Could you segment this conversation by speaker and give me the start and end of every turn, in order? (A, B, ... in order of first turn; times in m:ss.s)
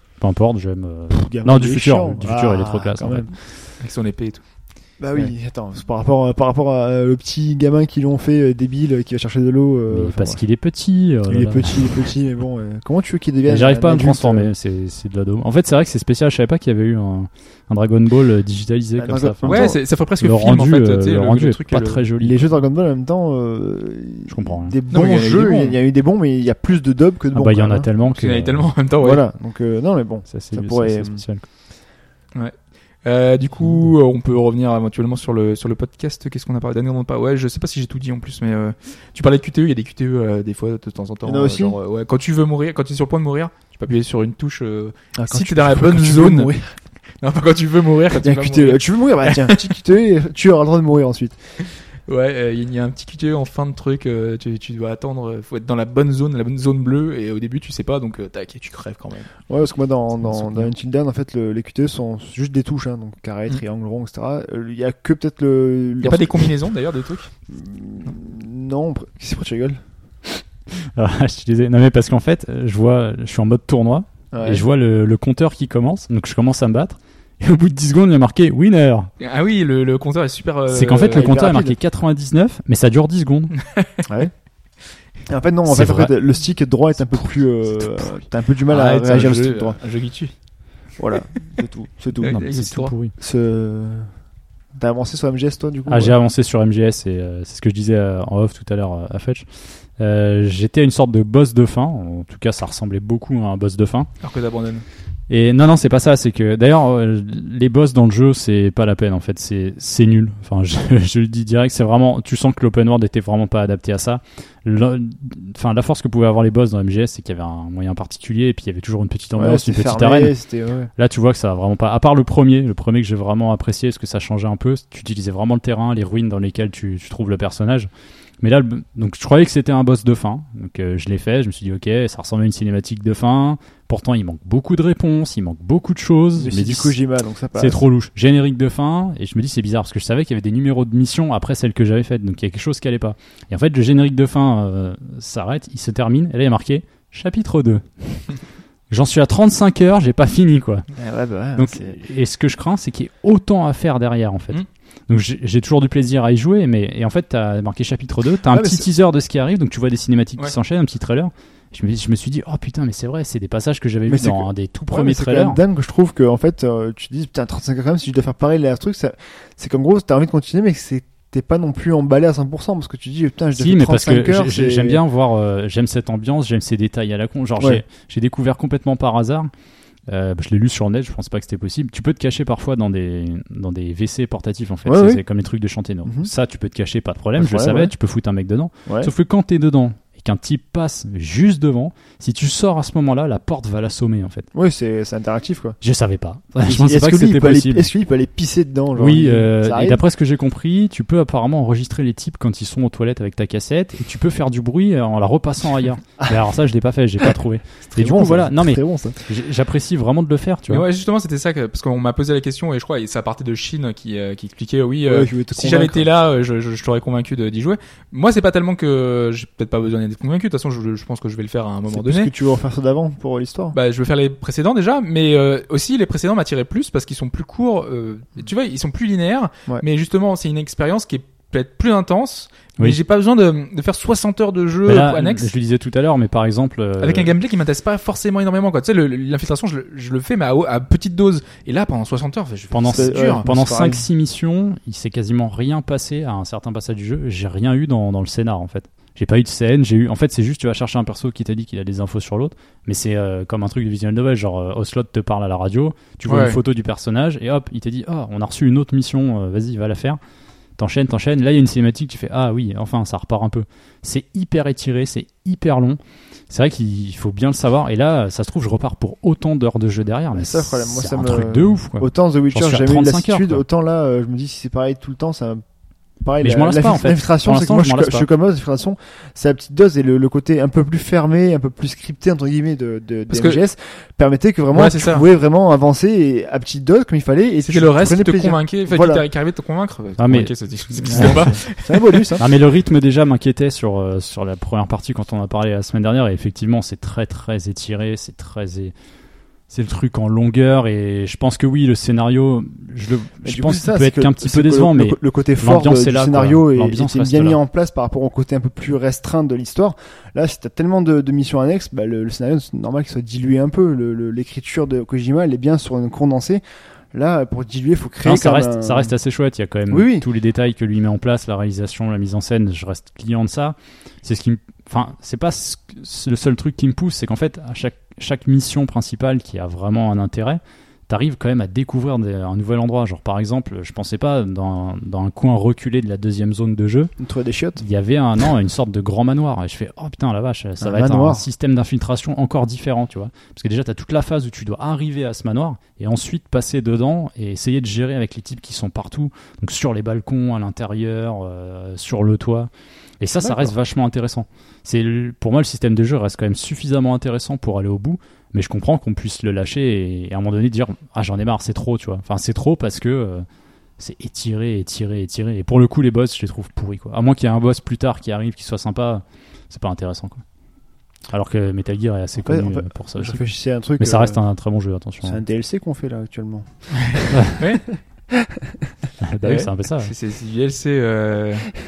0:00.2-0:03.3 A
0:01.1-0:03.3 B
0:03.8-0:04.4 C
0:05.0-0:10.4 B
0:09.9-0:12.0 A
0:11.3-0:14.5 B
0:13.4-0:22.6 A
0:19.0-0:19.8 B
0:19.4-0:22.0 C
0:22.2-0:27.9 B
0:24.3-0:24.8 A
0:24.9-0:25.8 C
0:27.3-0:28.7 A
0:28.0-0:29.2 C
0:29.0-0:31.2 B
0:30.3-0:31.4 A
0:32.3-0:46.5 C
0:41.2-0:41.8 B
0:45.2-0:46.7 B
0:47.2-0:49.6 C
0:48.1-0:51.4 B
0:52.1-0:59.3 C
0:59.5-1:06.5 B
1:00.2-1:00.7 C
1:06.0-1:07.3 C
1:07.5-1:09.8 B
1:10.9-1:19.1 A
1:14.3-1:14.6 B
1:19.2-1:21.3 C
1:20.7-1:23.5 A
1:21.1-1:21.8 B
1:23.7-1:24.0 C
1:24.1-1:24.3 B
1:25.3-1:29.8 B
1:25.6-1:26.1 A
1:27.8-1:28.1 C
1:28.6-1:30.3 C
1:31.0-1:32.4 B
1:32.2-1:32.9 C
1:32.2-1:33.1 A
1:33.2-1:34.1 B
1:34.8-1:36.2 B
1:35.9-1:39.5 A
1:40.0-1:44.1 A
1:44.2-1:44.8 C
1:45.3-2:00.3 A
1:59.3-2:00.9 B
2:01.0-2:07.9 A
2:08.4-2:17.0 A
2:16.4-2:17.8 B
2:17.6-2:28.3 A
2:28.9-2:30.9 A
2:30.9-2:32.0 B
2:31.6-2:45.6 A
2:38.5-2:38.9 B
2:44.1-2:55.0 B
2:53.6-2:59.5 A
2:57.6-2:57.8 B
3:00.1-3:14.5 A
3:04.8-3:05.2 B
3:07.4-3:07.9 B
3:14.5-3:15.8 B
3:15.8-3:17.9 A
3:16.6-3:20.0 B
3:19.0-3:30.9 A
3:27.9-3:29.2 B
3:30.7-3:42.3 C
3:35.0-3:36.1 B
3:41.9-3:43.8 B
3:43.7-3:55.5 C
3:54.8-3:57.3 A
3:57.0-4:03.5 C
4:02.7-4:20.2 A
4:02.8-4:04.0 B
4:16.3-4:16.6 C
4:20.8-4:26.0 A
4:26.5-4:33.6 A
4:30.3-4:35.6 B
4:36.2-4:49.2 B
4:36.4-4:38.3 A
4:43.3-4:43.6 C
4:44.7-4:45.2 C
4:47.6-4:52.2 C
4:50.2-4:51.6 A
4:51.1-4:52.4 B
4:52.4-4:58.9 A
4:59.7-5:07.6 A
5:03.4-5:19.1 B
5:18.2-5:37.1 A
5:19.9-5:20.2 B
5:37.2-5:37.8 B
5:37.8-6:03.4 A
5:40.8-5:41.4 B
5:53.4-5:53.8 B
6:04.0-6:10.4 A
6:11.3-6:13.4 A
6:12.4-6:14.4 B
6:14.0-6:15.4 A
6:15.2-6:17.6 B
6:17.0-6:17.8 C
6:19.2-6:20.1 A
6:19.4-6:21.7 C